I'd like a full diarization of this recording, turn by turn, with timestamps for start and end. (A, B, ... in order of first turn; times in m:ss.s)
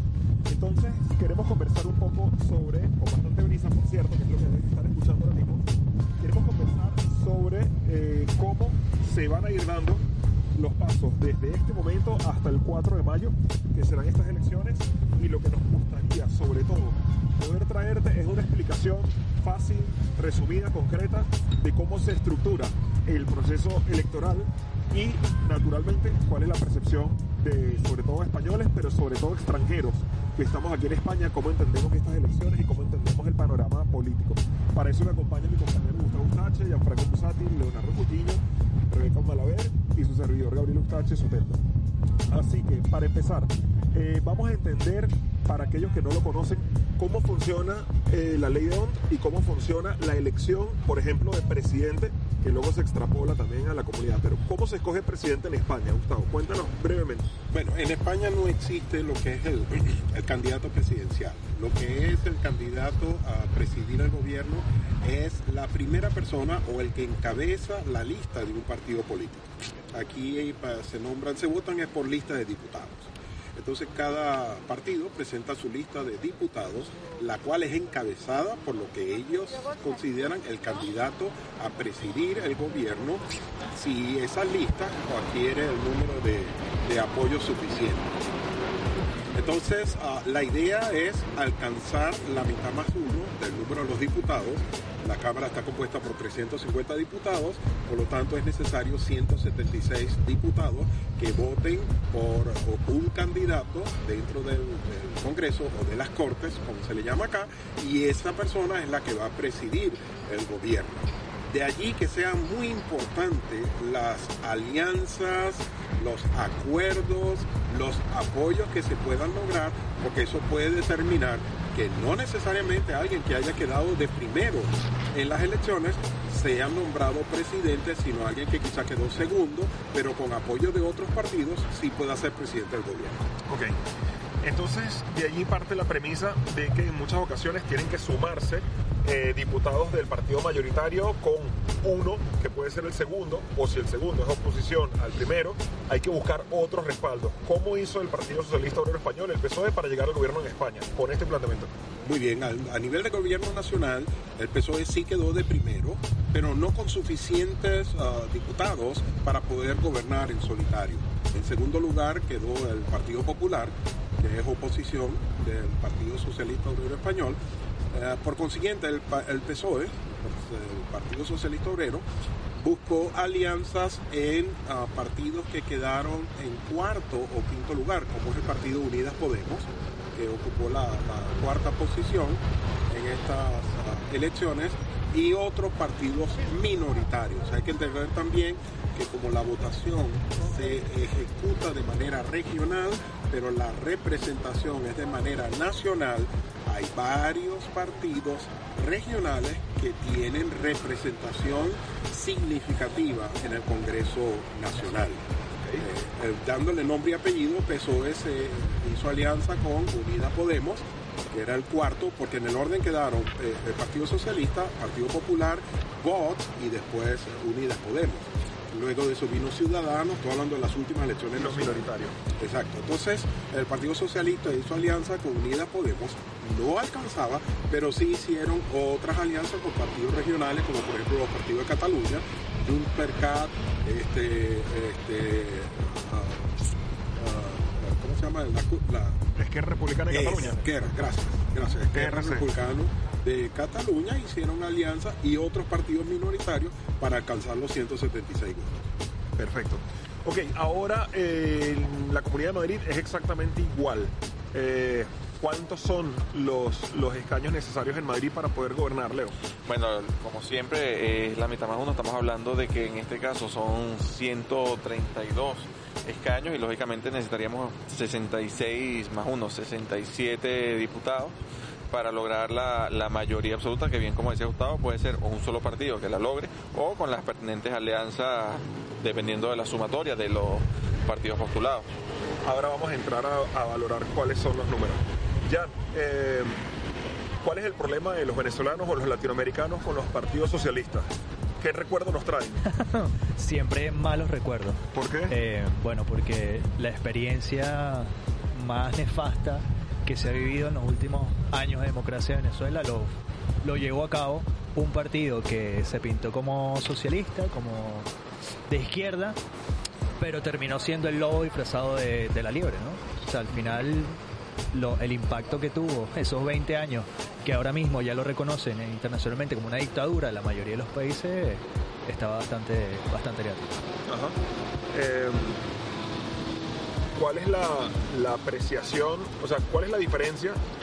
0:00.5-0:05.6 A
0:06.2-0:10.0 A
0:10.6-0:41.6 A
0:42.3-0:57.3 A
0:57.5-1:28.2 B
1:29.3-2:13.2 B
2:13.5-2:13.8 A
2:14.4-2:31.7 A
2:32.0-2:47.4 B
2:47.9-3:25.3 B
3:25.8-3:56.6 B
3:41.3-3:42.2 A
3:57.2-3:59.2 B
3:59.4-4:00.6 A
4:00.1-4:08.8 B
4:02.0-4:02.4 A
4:09.4-4:19.3 A
4:19.6-4:31.4 C
4:31.9-4:41.9 C
4:42.4-4:46.6 A
4:47.4-4:52.6 A
4:52.6-5:08.1 D
4:54.9-4:55.3 A
5:08.7-5:09.4 D
5:10.2-5:14.2 D
5:14.7-5:23.8 D
5:24.1-5:24.4 A
5:24.9-5:25.6 A
5:27.2-5:30.6 A